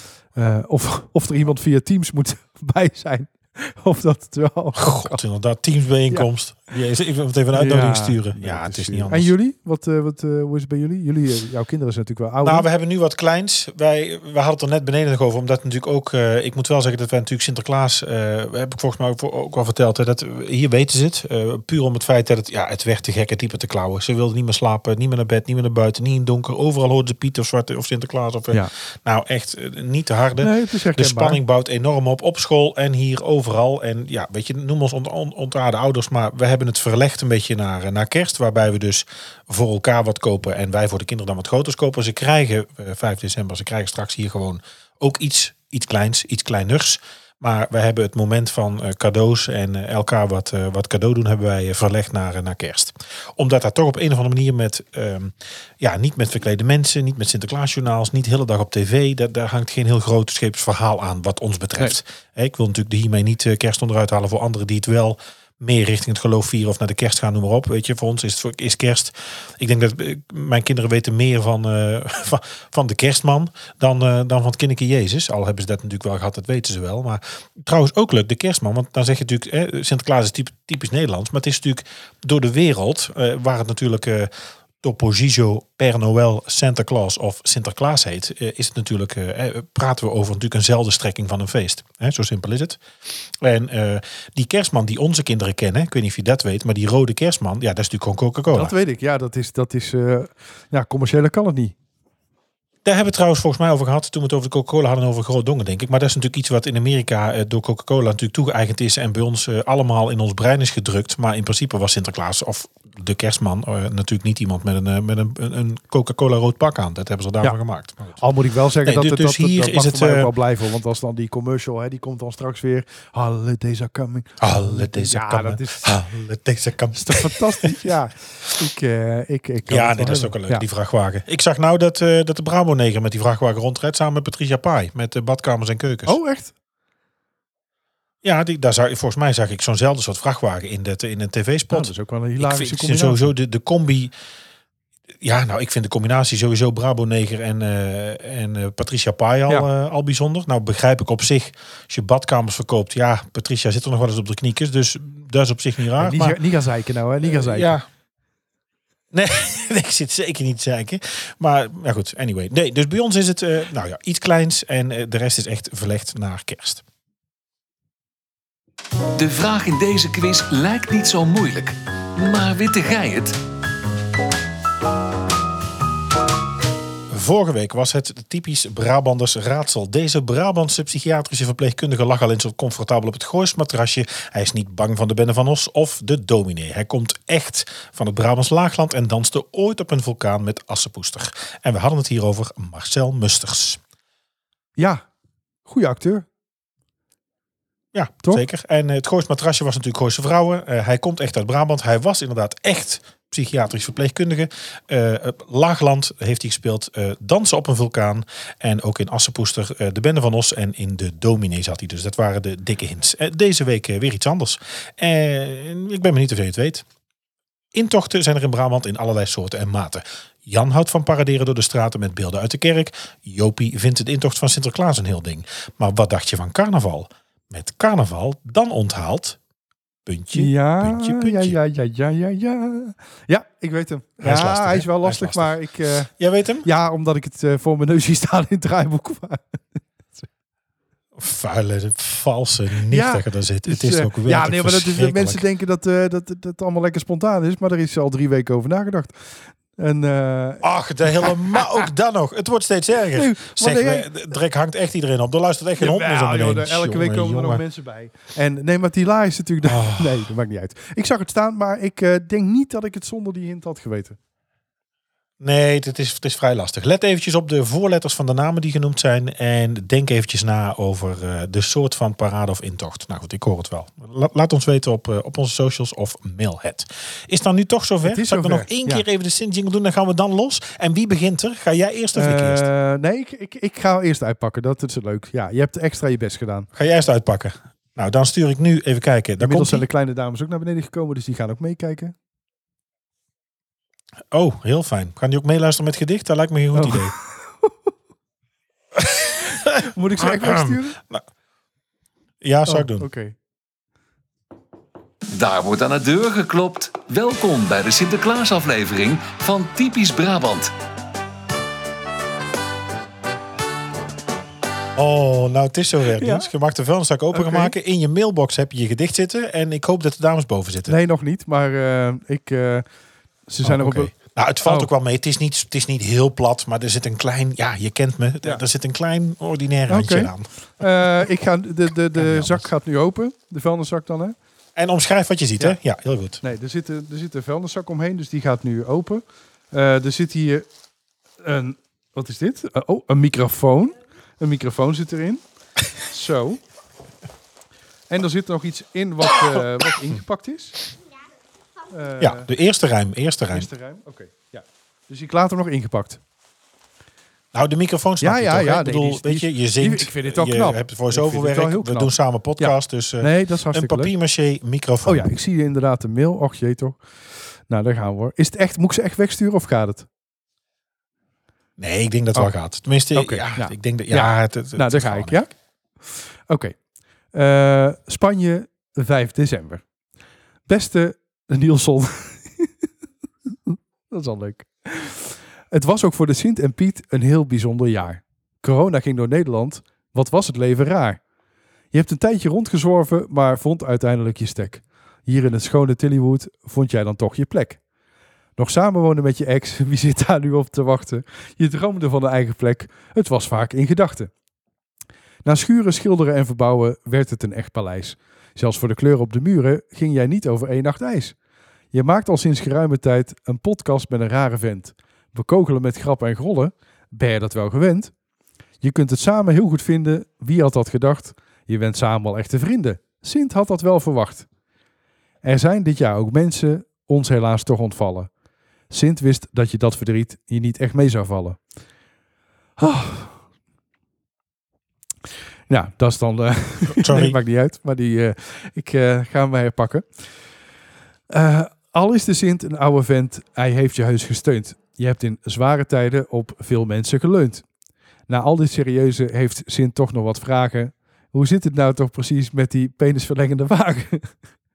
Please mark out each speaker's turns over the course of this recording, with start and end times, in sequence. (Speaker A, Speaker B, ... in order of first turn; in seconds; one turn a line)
Speaker A: 0.3-5.2
Speaker B: 4.8-9.3
Speaker A: 7.5-12.7
Speaker B: 12.4-92.8
Speaker A: 30.4-31.4
Speaker B: 93.4-98.8
Speaker A: 98.5-101.8
Speaker B: 102.8-118.2
Speaker A: 118.2-125.9
Speaker B: 118.8-120.3
Speaker B: 124.4-127.9
Speaker A: 127.0-130.7
Speaker B: 129.7-136.2
Speaker A: 136.1-136.6
Speaker B: 138.2-144.1
Speaker A: 141.7-143.2
Speaker B: 145.2-156.4
Speaker A: 156.0-157.7
Speaker B: 157.2-157.9
Speaker B: 159.1-166.8
Speaker C: 169.2-173.4
Speaker B: 177.1-193.8
Speaker A: 194.8-195.0
Speaker A: 195.7-196.3
Speaker B: 197.9-216.8
Speaker B: 217.7-229.4
Speaker B: 230.1-231.6
Speaker A: 230.3-236.1
Speaker B: 234.2-235.5
Speaker B: 236.2-236.7
Speaker A: 236.6-240.3
Speaker B: 241.2-245.4
Speaker A: 242.9-251.6
Speaker B: 250.6-257.6
Speaker A: 253.1-254.1
Speaker A: 255.8-264.2
Speaker B: 259.6-260.3
Speaker B: 265.4-282.7
Speaker A: 278.1-279.0
Speaker A: 282.1-286.7
Speaker B: 286.8-289.9
Speaker A: 289.4-292.2
Speaker B: 294.3-297.1
Speaker A: 296.8-297.7
Speaker B: 299.0-301.2
Speaker A: 299.8-301.0
Speaker B: 302.4-303.1
Speaker A: 302.7-303.4
Speaker C: 305.3-310.7
Speaker B: 315.0-320.9
Speaker A: 316.2-316.5
Speaker A: 317.3-317.7
Speaker A: 320.9-322.9
Speaker A: 323.5-324.1
Speaker B: 323.6-330.5
Speaker A: 329.9-334.4
Speaker B: 332.2-332.7
Speaker B: 334.8-336.4
Speaker A: 336.4-340.7
Speaker A: 341.4-345.4
Speaker A: 346.0-346.6
Speaker A: 348.1-350.8
Speaker A: 351.9-352.5
Speaker B: 352.2-353.7
Speaker A: 353.5-356.2
Speaker B: 357.5-365.4
Speaker A: 358.2-364.1
Speaker A: 365.1-367.0
Speaker A: 367.7-370.1
Speaker B: 371.8-375.4
Speaker A: 373.1-376.8
Speaker A: 377.3-379.8
Speaker A: 380.7-382.7
Speaker A: 383.7-391.2
Speaker A: 391.9-397.8
Speaker A: 398.6-404.3
Speaker A: 405.4-411.4
Speaker A: 411.9-418.1
Speaker A: 418.8-424.5
Speaker A: 425.4-428.3
Speaker A: 428.9-431.6
Speaker A: 432.8-433.4
Speaker A: 435.7-440.1
Speaker B: 436.9-437.4
Speaker A: 441.3-447.7
Speaker A: 448.3-454.4